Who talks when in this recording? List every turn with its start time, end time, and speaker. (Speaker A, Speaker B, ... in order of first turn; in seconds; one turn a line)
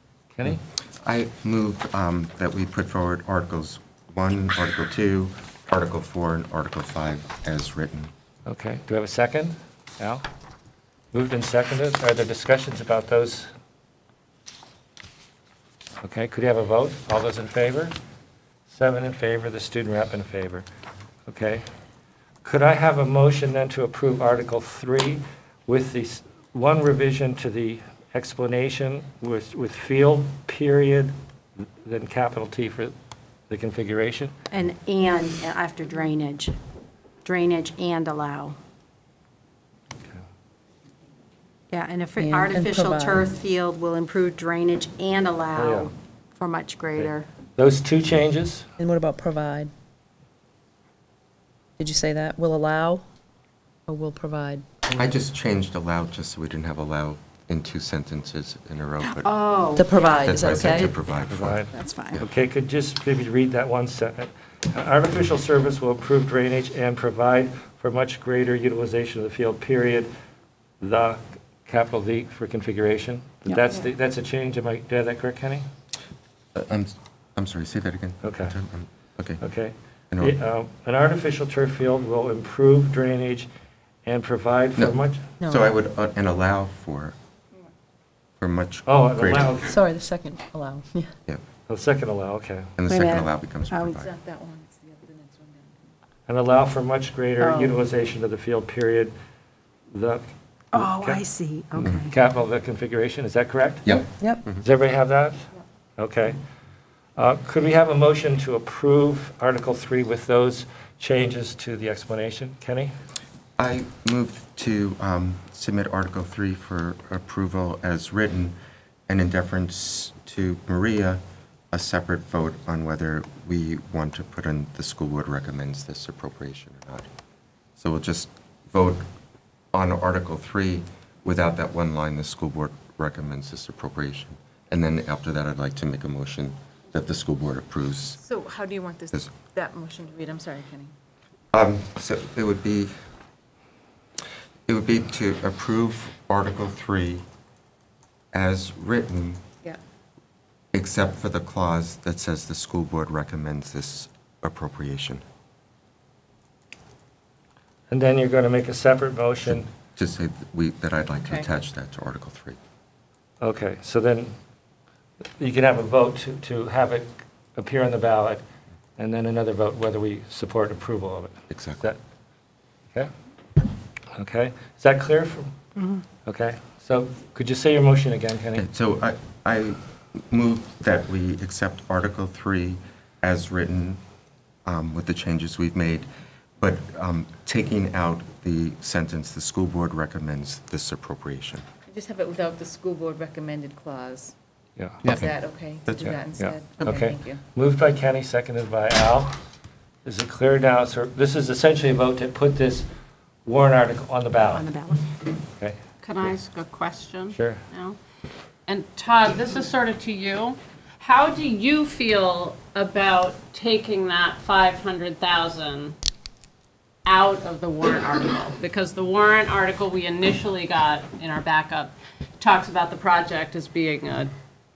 Speaker A: 0.3-0.6
Speaker B: 0.5-8.1
Speaker A: 8.4-10.2
Speaker A: 11.1-13.5
Speaker A: 16.0-17.9
Speaker A: 18.7-20.6
Speaker A: 21.3-21.6
Speaker A: 22.4-31.1
Speaker A: 31.8-32.9
Speaker A: 33.5-34.3
Speaker C: 34.5-36.5
Speaker C: 37.2-38.6
Speaker C: 41.7-47.3
Speaker D: 42.2-43.3
Speaker A: 45.5-45.9
Speaker A: 46.9-48.7
Speaker D: 48.8-49.7
Speaker D: 51.8-53.0
Speaker D: 53.9-54.6
Speaker B: 55.0-59.3
Speaker C: 59.0-60.1
Speaker D: 59.7-60.9
Speaker B: 60.1-62.3
Speaker A: 61.3-70.1
Speaker C: 61.7-62.2
Speaker A: 70.8-75.6
Speaker B: 76.5-79.4
Speaker A: 78.2-78.5
Speaker A: 79.4-83.5
Speaker B: 80.1-80.4
Speaker A: 84.0-85.2
Speaker B: 84.8-87.1
Speaker D: 85.4-85.7
Speaker B: 88.4-89.6
Speaker A: 88.8-89.8
Speaker D: 89.6-91.1
Speaker A: 91.7-92.7
Speaker B: 92.8-94.1
Speaker C: 92.9-93.9
Speaker E: 93.9-95.9
Speaker A: 96.3-99.1
Speaker C: 97.4-97.7
Speaker A: 99.9-101.2
Speaker C: 100.7-102.1
Speaker A: 101.7-103.9
Speaker B: 103.8-104.6
Speaker A: 104.6-106.4
Speaker A: 107.2-112.9
Speaker B: 113.6-118.5
Speaker B: 119.1-121.2
Speaker B: 121.7-127.1
Speaker B: 127.8-129.0
Speaker B: 129.7-138.2
Speaker E: 138.2-140.9
Speaker B: 141.5-142.9
Speaker B: 144.7-147.2
Speaker B: 148.3-149.4
Speaker B: 150.7-155.2
Speaker A: 157.9-159.7
Speaker B: 159.5-162.6
Speaker E: 161.2-161.4
Speaker A: 163.4-164.3
Speaker A: 165.4-168.4
Speaker A: 169.0-172.0
Speaker B: 171.5-171.9
Speaker A: 174.2-175.5
Speaker A: 176.2-178.6
Speaker B: 178.5-184.0
Speaker B: 184.7-186.1
Speaker B: 186.6-191.6
Speaker E: 191.9-194.3
Speaker A: 194.8-195.0
Speaker B: 195.0-195.3
Speaker E: 195.0-197.4
Speaker B: 195.8-196.2
Speaker A: 196.4-199.3
Speaker A: 200.0-202.8
Speaker A: 203.4-204.7
Speaker C: 204.5-205.0
Speaker F: 206.0-208.0
Speaker A: 207.3-207.6
Speaker F: 208.7-215.9
Speaker F: 217.1-224.3